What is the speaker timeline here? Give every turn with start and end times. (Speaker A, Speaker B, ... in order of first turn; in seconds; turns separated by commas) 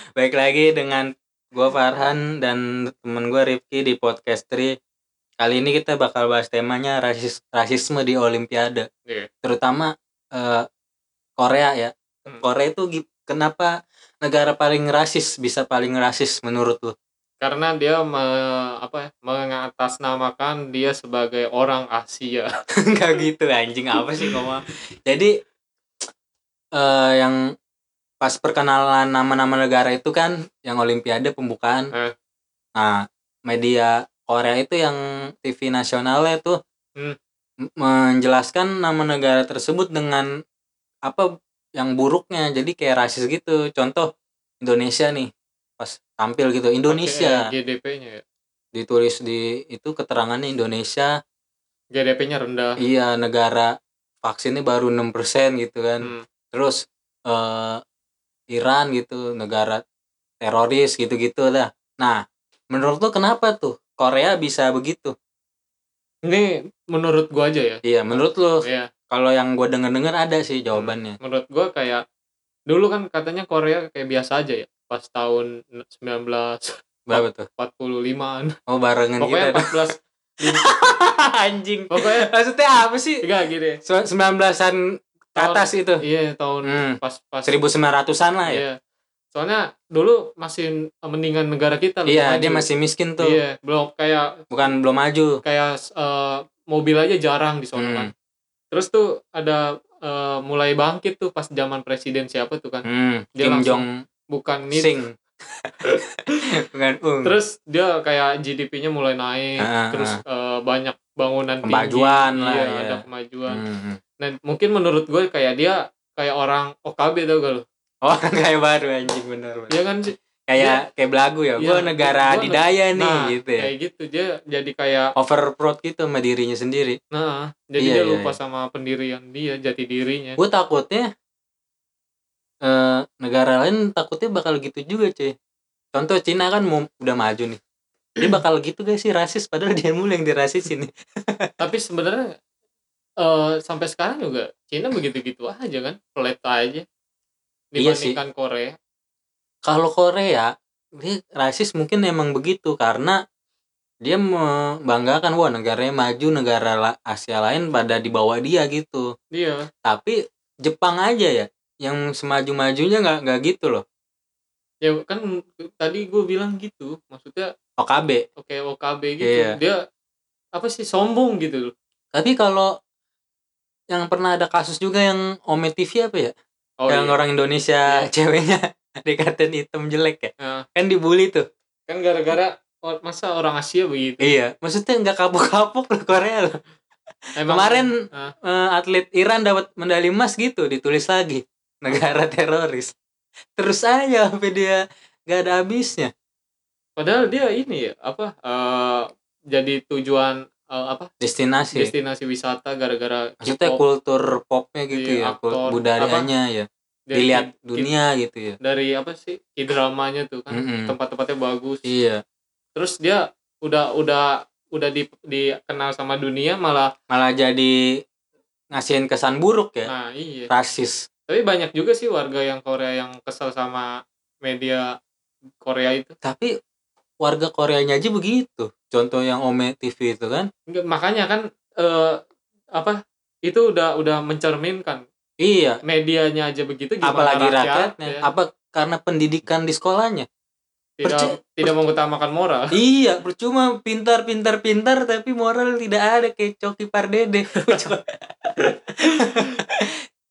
Speaker A: 0.1-4.8, Speaker A: 5.4-8.9, Speaker A: 9.4-10.7, Speaker A: 11.4-13.7, Speaker A: 14.2-16.9, Speaker B: 17.4-22.5, Speaker A: 22.8-25.4, Speaker A: 26.7-27.4, Speaker A: 28.2-31.9, Speaker A: 32.8-36.6, Speaker A: 37.6-40.3, Speaker A: 41.0-47.4, Speaker B: 46.9-48.2, Speaker A: 48.7-51.1, Speaker B: 51.9-52.8, Speaker A: 52.8-53.7, Speaker A: 54.2-57.8, Speaker B: 56.0-56.2, Speaker A: 58.5-59.8, Speaker A: 60.4-65.1, Speaker B: 66.2-68.9, Speaker A: 67.8-71.2, Speaker B: 70.7-72.0, Speaker B: 72.7-78.5, Speaker A: 77.1-77.5, Speaker A: 78.7-79.7, Speaker B: 79.2-80.7, Speaker A: 80.6-83.2, Speaker B: 81.9-82.3, Speaker B: 83.2-83.8, Speaker A: 83.8-86.0, Speaker B: 85.3-87.6, Speaker A: 86.6-88.6, Speaker B: 88.5-88.8, Speaker B: 89.3-92.6, Speaker A: 92.1-93.4, Speaker B: 93.2-94.4, Speaker A: 94.5-95.4, Speaker B: 95.4-98.1, Speaker A: 97.8-98.1, Speaker B: 98.7-102.8, Speaker A: 102.8-104.0, Speaker B: 103.4-104.9, Speaker A: 104.7-107.4, Speaker B: 105.8-106.5, Speaker B: 107.2-113.6, Speaker A: 109.6-110.2, Speaker A: 111.6-114.0, Speaker B: 114.2-117.6, Speaker A: 118.0-119.8, Speaker B: 119.7-120.8, Speaker A: 120.5-123.7, Speaker B: 121.6-125.1, Speaker A: 125.2-127.0, Speaker B: 127.1-130.4, Speaker A: 127.8-128.3, Speaker A: 130.4-131.1, Speaker A: 132.6-135.3, Speaker A: 135.9-137.6, Speaker A: 138.2-141.5, Speaker B: 141.6-142.3, Speaker B: 143.2-146.8, Speaker B: 147.7-148.7, Speaker A: 147.8-148.2, Speaker A: 149.6-153.2, Speaker A: 154.0-159.1, Speaker B: 159.3-159.7, Speaker A: 159.8-163.8, Speaker B: 164.8-167.5, Speaker A: 167.8-168.2, Speaker B: 168.4-169.8, Speaker A: 169.2-169.6, Speaker B: 170.5-171.7, Speaker A: 172.1-172.7, Speaker A: 173.9-176.3, Speaker B: 176.8-177.2, Speaker A: 176.9-181.4, Speaker B: 180.4-180.7, Speaker B: 181.9-184.3, Speaker A: 184.2-186.6, Speaker B: 187.4-188.3, Speaker A: 187.4-192.9, Speaker A: 193.6-196.1, Speaker B: 197.0-201.1, Speaker A: 201.2-201.9, Speaker B: 201.7-203.8, Speaker A: 203.4-208.6, Speaker B: 204.9-206.3, Speaker B: 207.1-207.9, Speaker B: 208.6-211.8, Speaker A: 210.5-210.9, Speaker A: 211.8-212.2, Speaker B: 212.8-216.9, Speaker A: 217.1-217.8, Speaker A: 218.7-219.9, Speaker B: 219.9-220.5, Speaker A: 220.5-221.1, Speaker B: 221.3-223.9, Speaker B: 224.4-224.9, Speaker B: 225.6-226.1, Speaker A: 226.2-226.5, Speaker A: 227.2-230.5, Speaker B: 230.7-232.2, Speaker B: 232.8-235.0, Speaker A: 235.4-235.8, Speaker B: 235.8-238.2, Speaker A: 237.0-240.3, Speaker B: 241.0-242.8, Speaker A: 241.0-241.7, Speaker A: 242.7-250.0, Speaker B: 247.6-247.9, Speaker B: 248.6-249.6